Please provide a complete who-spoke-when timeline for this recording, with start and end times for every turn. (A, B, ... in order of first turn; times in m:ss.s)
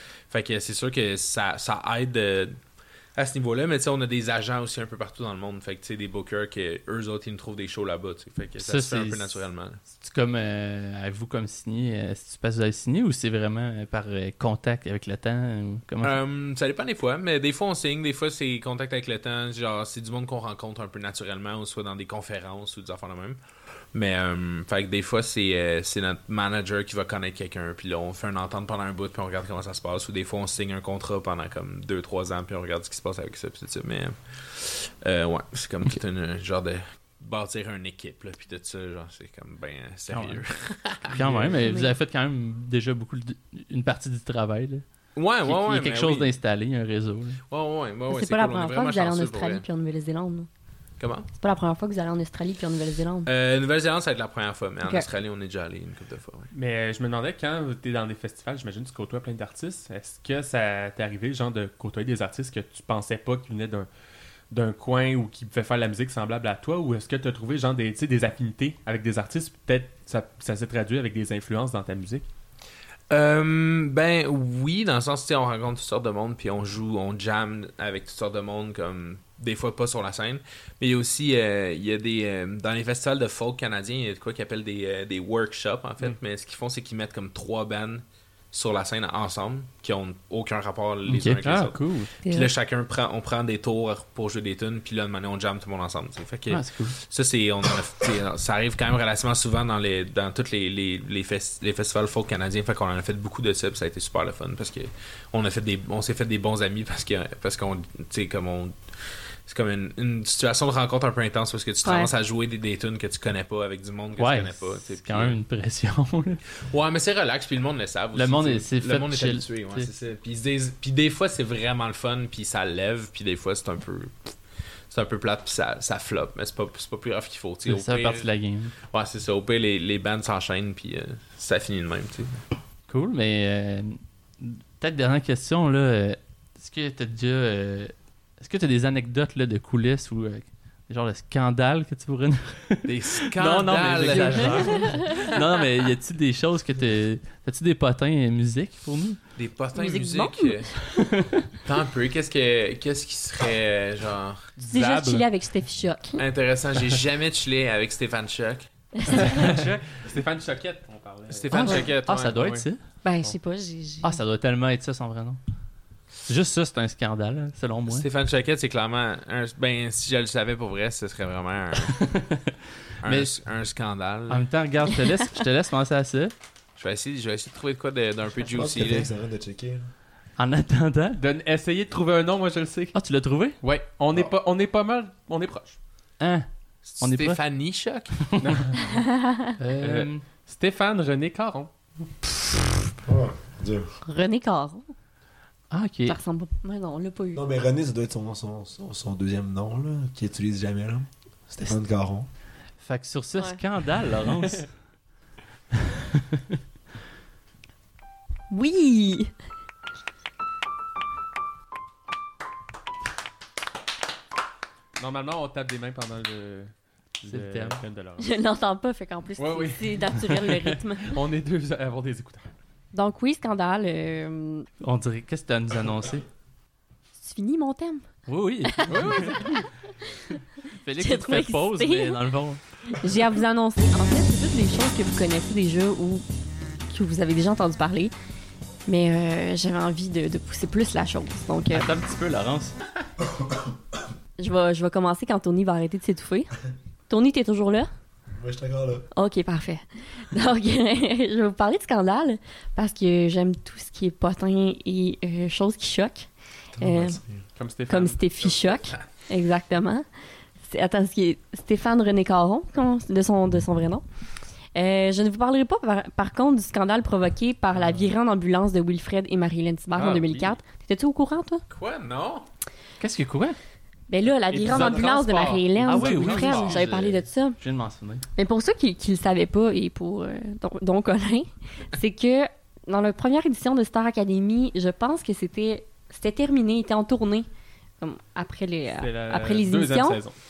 0:00.3-0:02.6 A
0:03.2-0:09.8 A
0:08.6-0:09.4 B
0:09.9-0:16.2 B
0:16.0-0:23.4 A
0:23.9-0:41.5 A
0:40.1-0:40.4 B
0:41.1-0:44.8 B
0:41.2-0:41.5 C
0:41.6-0:41.9 D
0:45.1-0:46.3 A
0:45.4-0:47.4 B
0:47.5-0:49.6 A
0:48.1-0:50.5 D
0:51.0-0:51.3 A
0:51.3-0:53.3 D
0:53.2-0:56.5 A
0:56.5-1:03.9 C
1:04.5-1:12.2 C
1:13.1-1:48.8 A
1:31.1-1:31.4 B
1:31.4-1:32.1 C
1:36.5-1:37.0 B
1:49.4-1:55.4 A
1:51.8-1:52.1 D
1:54.2-1:56.4 B
1:56.6-2:04.3 A
1:58.1-1:59.9 B
2:04.9-2:08.3 A
2:07.6-2:08.7 B
2:08.9-2:12.4 A
2:12.9-2:29.2 B
2:22.8-2:25.4 A
2:24.4-2:25.3 D
2:29.4-2:30.8 A
2:29.7-2:31.0 D
2:30.9-2:31.4 B
2:31.6-2:34.5 A
2:34.6-2:35.2 C
2:34.6-2:36.2 D
2:36.2-2:38.7 A
2:39.0-2:39.4 D
2:39.1-2:42.6 C
2:39.3-2:39.8 B
2:41.3-2:42.5 A
2:41.5-2:42.8 B
2:41.5-2:41.8 D
2:43.0-2:44.2 D
2:44.0-2:45.4 B
2:46.2-2:48.1 B
2:47.9-2:52.1 A
2:51.9-2:53.3 B
2:53.0-2:54.4 A
2:54.3-2:56.3 B
2:56.8-2:59.1 A
2:58.5-2:59.8 E
3:00.4-3:01.2 B
3:01.2-3:02.9 C
3:02.9-3:03.6 B
3:03.6-3:05.8 C
3:06.2-3:06.5 B
3:06.8-3:08.2 A
3:07.0-3:07.4 B
3:08.4-3:08.9 C
3:08.8-3:09.5 D
3:09.6-3:10.2 B
3:09.8-3:11.7 C
3:13.0-3:13.9 E
3:14.0-3:14.9 D
3:15.7-3:16.2 B
3:16.0-3:17.4 D
3:17.3-3:22.3 E
3:22.8-3:24.7 B
3:25.8-3:26.6 B
3:28.5-3:29.3 D
3:35.0-3:38.3 C
3:37.2-3:37.8 B
3:38.2-3:41.2 D
3:39.4-3:42.5 C
3:42.9-3:44.7 D
3:44.8-3:46.2 B
3:47.2-3:48.1 D
3:48.2-3:49.4 B
3:48.6-3:49.7 D
3:48.9-3:49.6 C
3:50.7-3:52.6 B
3:51.0-3:52.2 D
3:52.9-3:56.2 D
3:56.9-3:58.1 D
3:58.9-4:01.9 D
4:01.7-4:02.7 B
4:03.2-4:03.6 E
4:04.4-4:06.5 D
4:07.1-4:07.9 D
4:08.3-4:09.0 E
4:09.1-4:17.2 D
4:16.8-4:17.4 E
4:17.5-4:18.8 C
4:17.9-4:20.0 D
4:20.6-4:24.0 D
4:24.7-4:31.6 D
4:29.9-4:30.6 C
4:31.7-4:32.4 A
4:33.0-4:33.6 B
4:34.1-4:37.6 D
4:34.4-4:36.8 C
4:35.8-4:38.2 B
4:38.4-4:47.5 D
4:48.0-4:50.2 D
4:49.0-4:50.3 C